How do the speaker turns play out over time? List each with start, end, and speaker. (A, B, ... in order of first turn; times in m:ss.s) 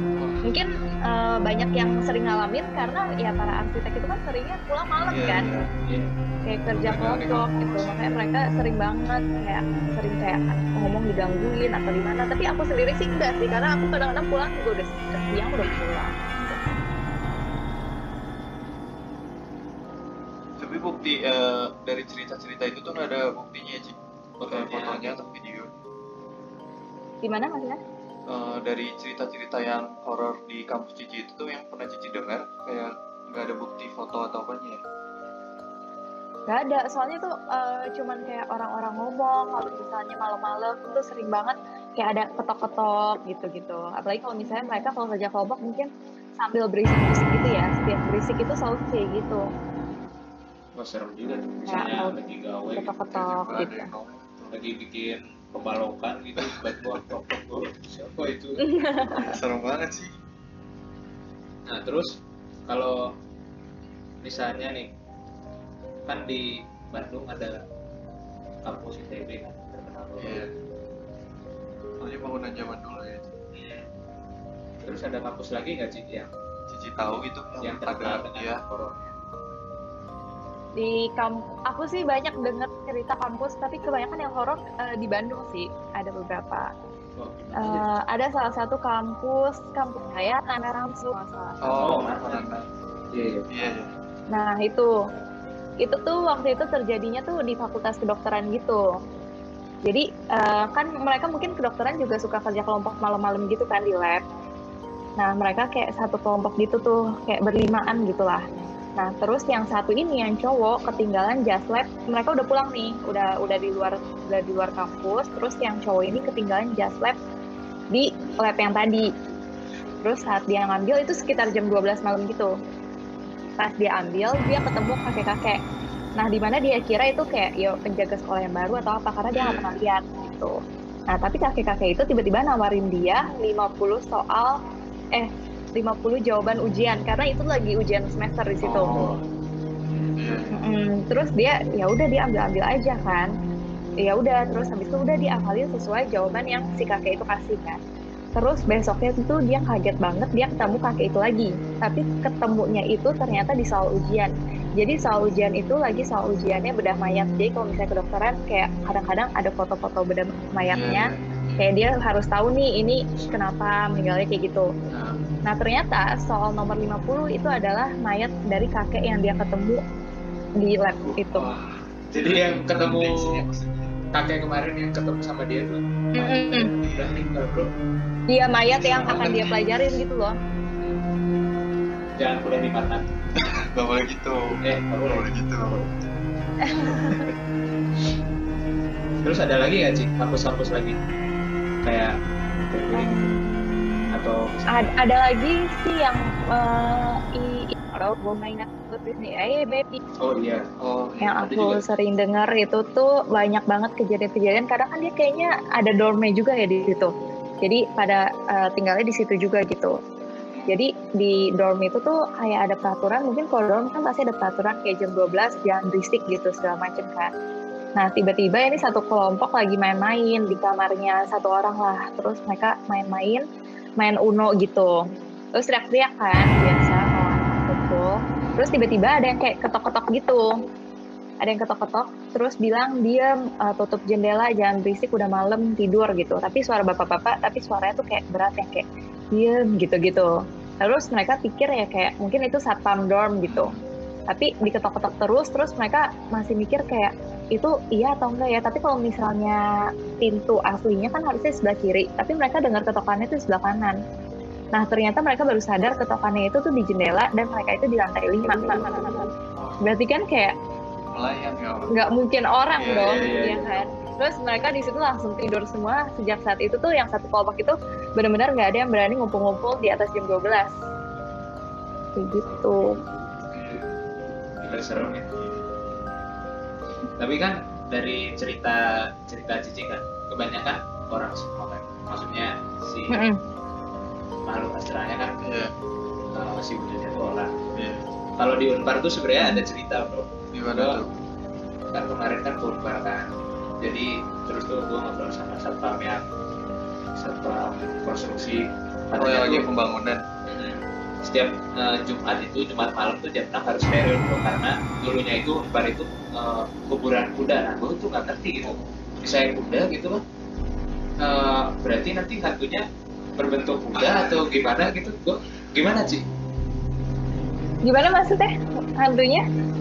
0:00.2-0:00.5 A
0:00.4-0:05.5 B
0:05.1-0:05.7 A
0:05.7-0:06.1 C
0:06.5-0:16.2 B
0:06.7-0:08.2 A
0:16.4-0:16.8 A
0:20.6-0:24.0 A
0:24.4-0:25.2 C
0:24.5-0:25.7 A
0:27.2-0:27.8 B
0:28.3-0:34.8 A
0:36.5-0:49.5 B
0:50.8-0:53.0 C
0:51.7-0:52.2 B
0:52.8-0:53.9 B
0:53.1-0:54.6 A
0:54.5-0:58.7 C
0:58.6-0:59.4 B
0:59.1-1:00.1 A
1:01.7-1:02.2 C
1:02.7-1:03.1 C
1:04.2-1:04.9 C
1:06.1-1:07.6 C
1:08.6-1:10.4 C
1:10.2-1:10.5 A
1:12.0-1:13.3 A
1:13.5-1:13.9 C
1:14.8-1:16.3 C
1:16.7-1:18.6 A
1:17.0-1:19.1 C
1:20.8-1:26.7 B
1:27.2-1:27.9 C
1:27.6-1:31.9 B
1:31.6-1:32.6 A
1:31.7-1:32.5 C
1:33.1-1:33.5 C
1:33.5-1:33.9 A
1:34.3-1:34.9 B
1:35.8-1:38.9 B
1:39.8-1:44.2 B
1:45.2-1:48.4 B
1:49.0-1:57.2 B
1:57.9-1:59.1 B
2:00.0-2:02.5 B
2:03.6-2:05.6 B
2:06.2-2:10.6 B
2:09.3-2:09.8 A
2:11.1-2:14.6 B
2:15.2-2:18.9 B
2:18.6-2:19.2 A
2:18.9-2:19.2 C
2:19.9-2:20.2 C
2:20.2-2:20.5 A
2:20.5-2:23.3 B
2:24.0-2:27.8 B
2:28.4-2:44.7 B
2:40.7-2:41.7 A
2:44.9-2:45.2 A
2:45.5-2:49.8 B
2:50.6-2:51.5 B
2:51.0-2:54.0 A
2:52.1-2:53.4 C
2:54.1-2:57.7 C
2:56.2-2:56.7 B
2:56.8-2:57.2 A
2:58.3-3:00.4 B
2:58.8-2:59.6 A
2:58.9-2:59.3 C
3:02.2-3:03.1 C
3:03.4-3:05.8 A
3:04.6-3:05.9 C
3:06.6-3:07.3 B
3:06.9-3:07.2 C
3:09.2-3:11.0 C
3:11.8-3:12.1 C
3:12.7-3:13.3 C
3:12.9-3:14.1 B
3:14.1-3:15.0 C
3:14.8-3:20.0 B
3:20.2-3:20.7 C
3:20.8-3:21.4 A
3:21.2-3:30.0 B
3:21.2-3:21.8 C
3:30.3-3:30.5 C
3:30.5-3:30.8 A
3:30.7-3:37.3 B
3:38.0-3:43.4 B
3:44.0-3:45.0 B
3:45.6-3:50.6 B
3:48.4-3:48.8 A
3:51.4-4:03.7 B
4:03.5-4:03.8 A
4:04.3-4:09.6 B
4:10.2-4:14.0 B
4:14.7-4:19.3 B
4:19.6-4:19.8 A
4:19.8-4:20.6 B
4:21.1-4:21.9 A
4:21.9-4:30.8 B
4:22.8-4:23.4 A
4:22.9-4:23.8 C
4:32.2-4:33.0 B
4:32.4-4:33.5 C
4:33.5-4:33.9 A
4:34.6-4:35.3 C
4:35.0-4:35.6 A
4:37.2-4:43.2 C
4:43.1-4:43.4 B
4:44.5-4:45.4 C
4:45.4-4:45.7 A
4:46.4-4:47.6 C
4:47.7-4:48.0 A
4:48.4-4:51.0 C
4:50.5-4:51.1 A
4:51.9-4:53.3 C
4:53.8-4:56.3 C
4:57.2-4:59.6 C
4:59.2-5:00.2 A
5:00.5-5:10.2 C
5:08.6-5:09.1 A
5:11.2-5:12.9 C
5:13.4-5:16.3 C
5:13.9-5:14.5 A
5:17.8-5:19.4 B